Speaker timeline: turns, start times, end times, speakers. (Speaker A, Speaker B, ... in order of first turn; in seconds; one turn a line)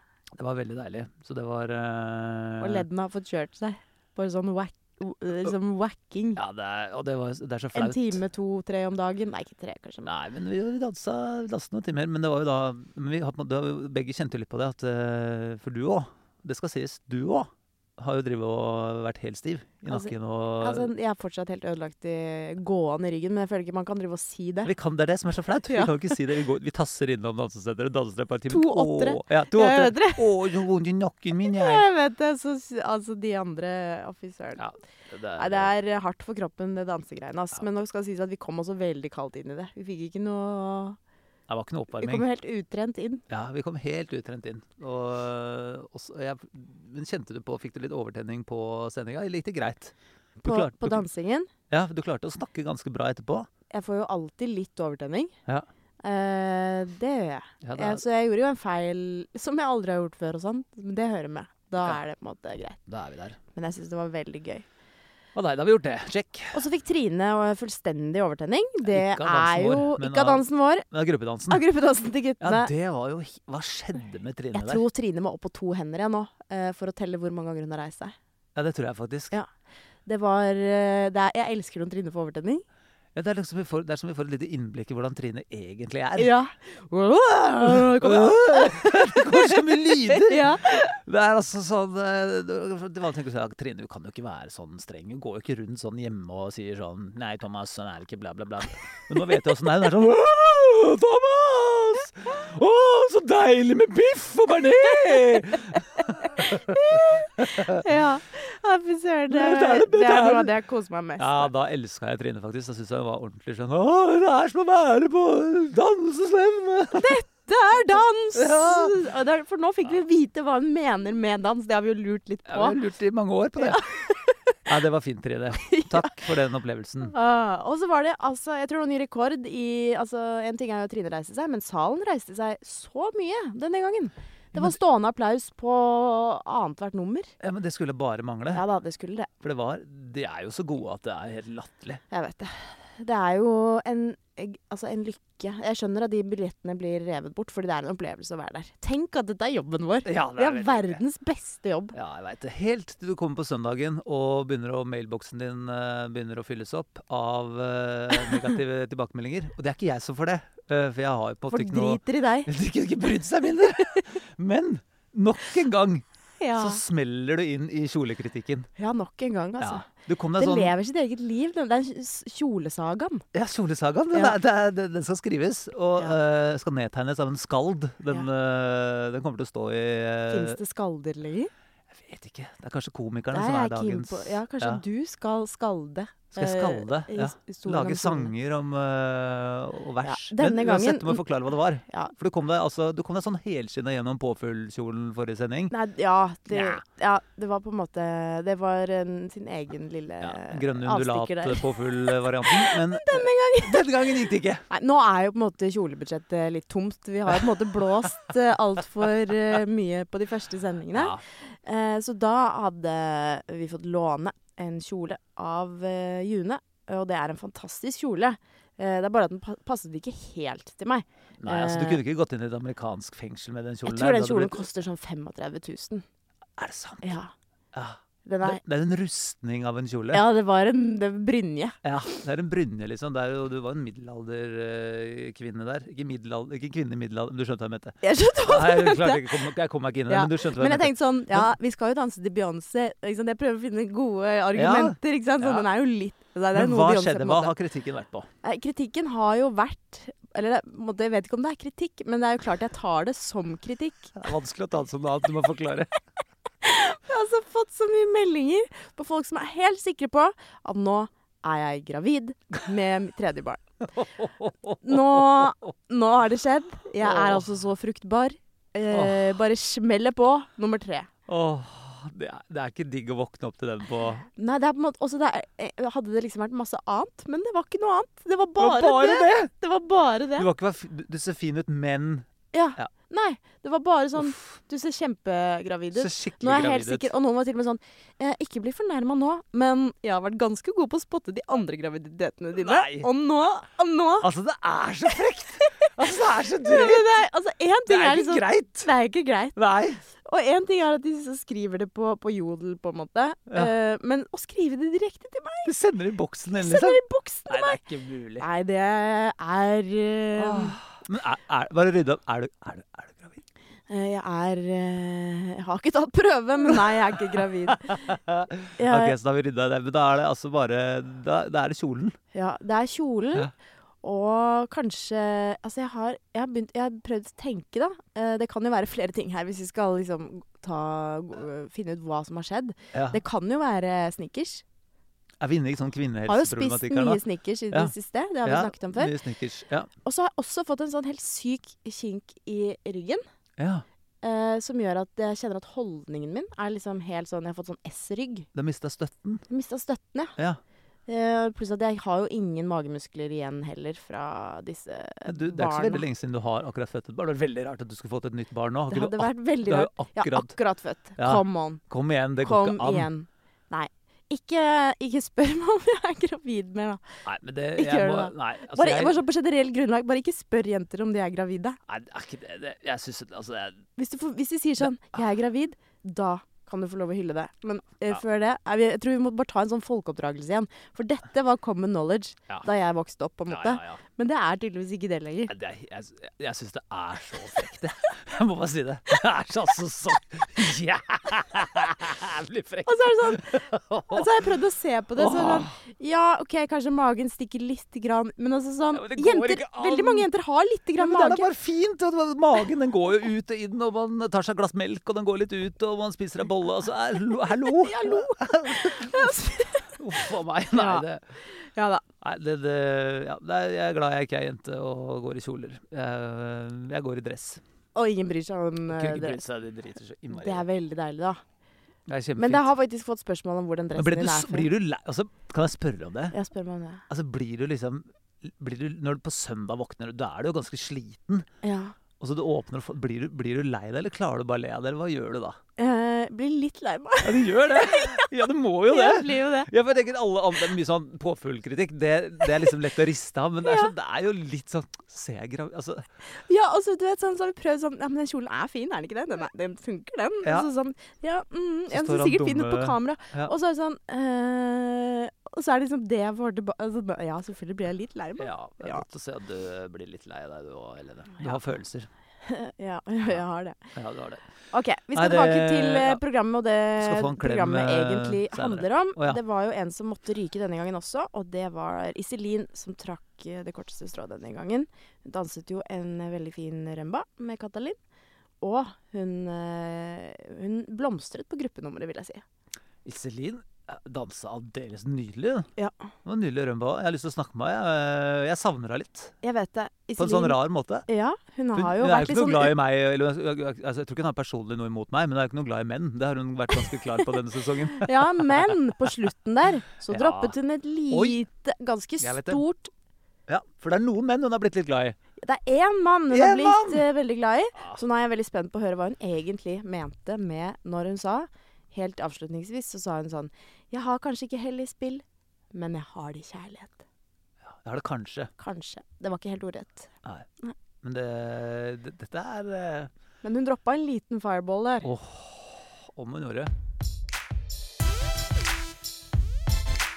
Speaker A: 0.4-2.9
Speaker B: 2.6-6.4
Speaker A: 6.4-8.2
Speaker B: 7.7-10.1
Speaker A: 10.0-20.9
Speaker B: 19.9-24.7
Speaker A: 24.7-31.8
Speaker B: 25.7-26.1
Speaker B: 28.5-30.3
Speaker B: 31.4-34.6
Speaker A: 34.6-35.7
Speaker B: 35.4-41.0
Speaker A: 41.5-42.2
Speaker B: 42.0-43.2
Speaker A: 43.3-51.0
Speaker B: 50.4-51.5
Speaker A: 51.7-53.5
Speaker B: 53.7-55.4
Speaker B: 56.0-62.8
Speaker A: 57.6-58.0
Speaker A: 62.9-63.4
Speaker B: 63.5-64.7
Speaker A: 65.3-66.7
Speaker B: 66.5-70.9
Speaker A: 68.9-71.6
Speaker B: 71.5-72.7
Speaker A: 72.4-74.8
Speaker B: 74.5-78.2
Speaker A: 78.6-79.4
Speaker B: 80.1-82.6
Speaker A: 83.2-86.3
Speaker B: 86.2-90.9
Speaker A: 87.6-107.8
Speaker B: 106.3-111.5
Speaker A: 109.3-110.5
Speaker A: 111.2-117.2
Speaker B: 116.9-122.8
Speaker A: 118.3-119.0
Speaker A: 122.5-123.9
Speaker B: 123.6-124.6
Speaker A: 124.7-127.1
Speaker B: 125.7-126.2
Speaker B: 127.0-137.3
Speaker A: 137.4-138.6
Speaker B: 138.5-139.3
Speaker A: 139.4-142.0
Speaker B: 142.1-151.9
Speaker A: 150.1-151.0
Speaker A: 151.9-166.0
Speaker B: 161.5-162.5
Speaker B: 166.4-166.8
Speaker A: 166.6-168.7
Speaker B: 168.8-169.9
Speaker A: 169.6-170.7
Speaker B: 170.4-173.2
Speaker A: 173.3-180.6
Speaker B: 180.3-181.5
Speaker A: 181.9-184.8
Speaker B: 183.3-188.3
Speaker A: 186.3-195.7
Speaker B: 190.0-191.2
Speaker B: 195.7-201.8
Speaker A: 196.5-196.8
Speaker A: 200.2-204.7
Speaker B: 202.5-203.9
Speaker B: 204.7-222.0
Speaker A: 210.9-211.2
Speaker A: 221.4-224.6
Speaker B: 223.9-226.0
Speaker A: 226.6-227.2
Speaker B: 227.0-227.3
Speaker A: 227.7-230.2
Speaker B: 228.3-228.6
Speaker B: 230.1-231.8
Speaker A: 231.8-238.0
Speaker B: 238.0-239.4
Speaker A: 238.5-241.5
Speaker B: 240.1-247.5
Speaker A: 244.6-245.7
Speaker A: 246.5-248.3
Speaker B: 248.4-254.2
Speaker A: 254.2-255.9
Speaker B: 256.6-263.6
Speaker A: 263.8-265.7
Speaker B: 264.8-271.1
Speaker A: 267.0-267.5
Speaker A: 268.9-269.4
Speaker A: 271.3-274.3
Speaker B: 274.4-280.5
Speaker A: 278.6-279.5
Speaker A: 280.4-282.9
Speaker B: 282.5-294.3
Speaker A: 284.2-284.4
Speaker A: 285.9-287.1
Speaker A: 292.6-293.1
Speaker A: 294.2-297.1
Speaker B: 295.6-295.9
Speaker B: 296.6-299.6
Speaker A: 297.9-298.9
Speaker A: 299.6-300.0
Speaker B: 300.2-305.7
Speaker A: 305.6-308.5
Speaker B: 306.6-307.8
Speaker B: 308.4-310.8
Speaker A: 310.4-313.4
Speaker B: 313.9-317.9
Speaker A: 317.3-322.1
Speaker B: 318.8-319.1
Speaker B: 322.3-323.5
Speaker B: 324.0-334.6
Speaker A: 332.9-333.2
Speaker A: 335.4-337.9
Speaker B: 336.3-339.1
Speaker A: 338.4-339.9
Speaker B: 340.1-343.2
Speaker A: 343.6-343.9
Speaker B: 344.2-348.5
Speaker A: 348.5-349.4
Speaker B: 349.5-350.4
Speaker B: 351.1-356.1
Speaker A: 355.3-360.5
Speaker B: 358.9-361.8
Speaker A: 361.2-363.1
Speaker B: 362.4-367.0
Speaker A: 367.2-369.2
Speaker B: 367.8-371.8
Speaker A: 371.9-373.9
Speaker B: 374.0-385.5
Speaker A: 374.8-375.2
Speaker A: 383.5-384.0
Speaker A: 385.5-394.3
Speaker B: 392.9-393.6
Speaker B: 394.1-401.5
Speaker A: 395.2-395.7
Speaker A: 398.9-400.3
Speaker A: 401.0-409.4
Speaker B: 407.8-412.0
Speaker A: 410.0-411.2
Speaker A: 412.2-417.6
Speaker B: 417.9-419.4
Speaker A: 418.9-420.7
Speaker B: 420.3-421.4
Speaker A: 422.1-422.7
Speaker B: 422.4-424.7
Speaker A: 424.0-426.4
Speaker B: 426.3-427.0
Speaker A: 427.1-431.5
Speaker B: 431.6-431.9
Speaker A: 432.2-435.6
Speaker B: 435.8-438.3
Speaker A: 437.2-446.1
Speaker B: 438.9-439.7
Speaker B: 443.6-443.9
Speaker B: 446.5-459.1
Speaker A: 451.9-453.5
Speaker A: 458.4-462.1
Speaker B: 462.5-463.8
Speaker A: 463.9-464.4
Speaker B: 464.7-478.0
Speaker A: 465.1-466.2
Speaker A: 467.0-469.4
Speaker B: 478.6-482.4
Speaker A: 483.1-485.7
Speaker B: 485.8-486.1
Speaker A: 486.2-489.4
Speaker B: 489.4-492.7
Speaker A: 490.2-491.1
Speaker A: 491.7-498.7
Speaker B: 498.0-502.9
Speaker A: 500.1-500.5
Speaker A: 501.1-501.4
Speaker A: 502.2-502.6
Speaker A: 503.5-505.2
Speaker B: 505.4-517.0
Speaker A: 506.3-507.1
Speaker A: 517.7-518.5
Speaker B: 518.6-520.1
Speaker A: 521.0-523.1
Speaker B: 523.4-525.1
Speaker A: 525.0-526.7